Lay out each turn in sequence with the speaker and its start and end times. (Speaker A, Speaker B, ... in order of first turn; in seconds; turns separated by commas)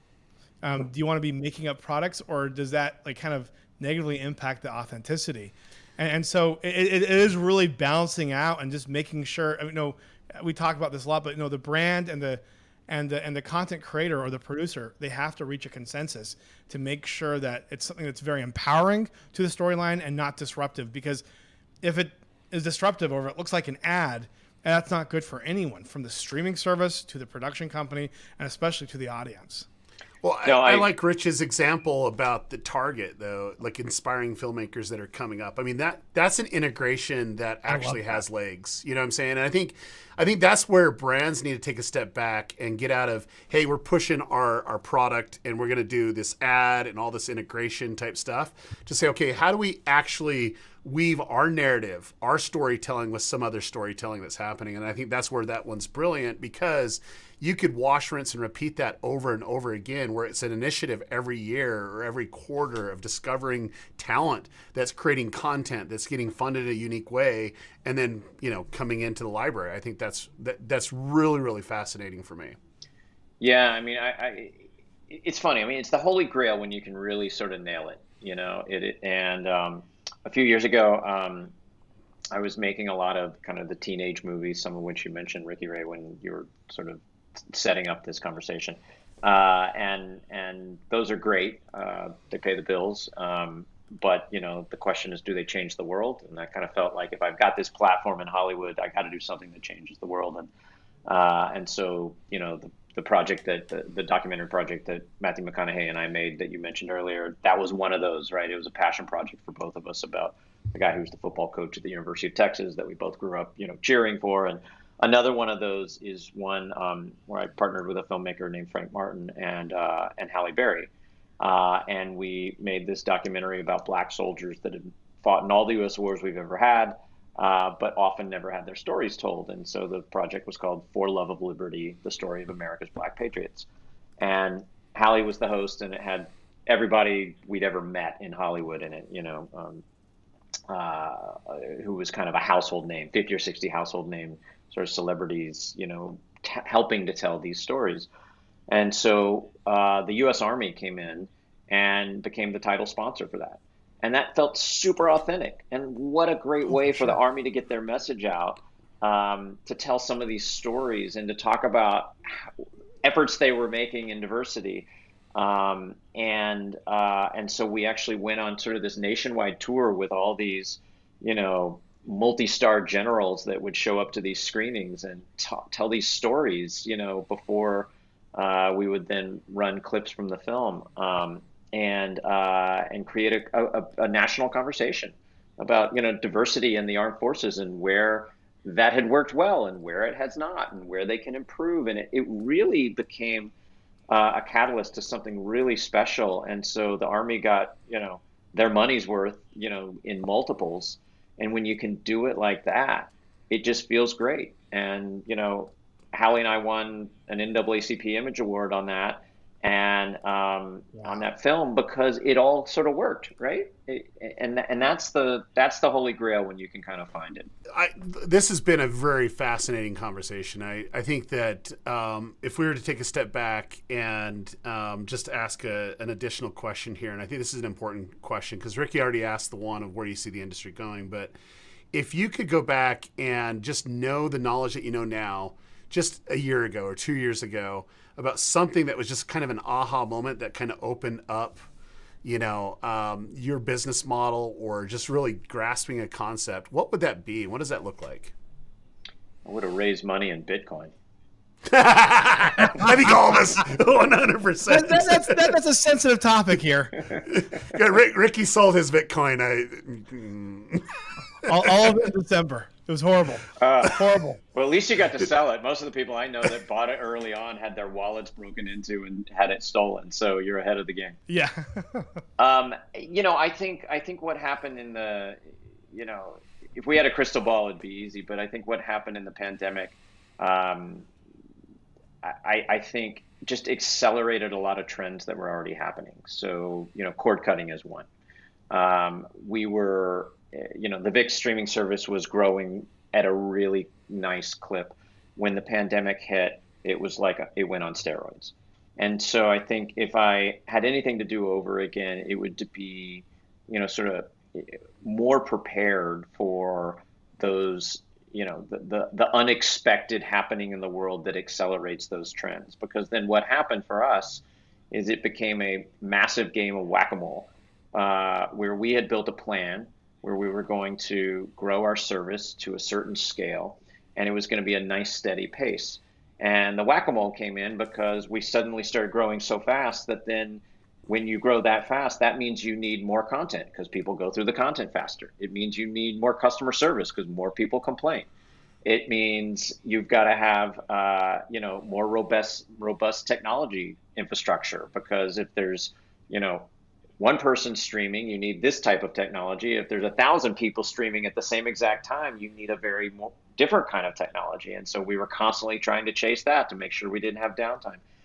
Speaker A: 0.6-21.2, Speaker A: 21.8-29.6, Speaker B: 30.2-72.6, Speaker C: 30.4-30.9, Speaker A: 37.7-38.0, Speaker C: 73.4-81.5, Speaker C: 82.3-100.5, Speaker C: 101.0-133.7, Speaker C: 134.2-139.8, Speaker C: 140.7-148.1, Speaker C: 148.7-162.5, Speaker A: 156.9-157.1, Speaker C: 163.0-193.5, Speaker C: 194.1-217.5, Speaker B: 217.7-231.3, Speaker B: 231.9-241.6, Speaker B: 242.2-248.3, Speaker C: 249.4-250.9, Speaker B: 251.7-255.6, Speaker A: 254.7-257.1, Speaker B: 257.3-261.9, Speaker A: 261.4-264.4, Speaker C: 263.6-271.2, Speaker A: 271.3-272.1, Speaker C: 272.4-281.1, Speaker C: 282.2-288.1, Speaker C: 288.7-338.3, Speaker C: 338.8-346.7, Speaker C: 347.2-358.0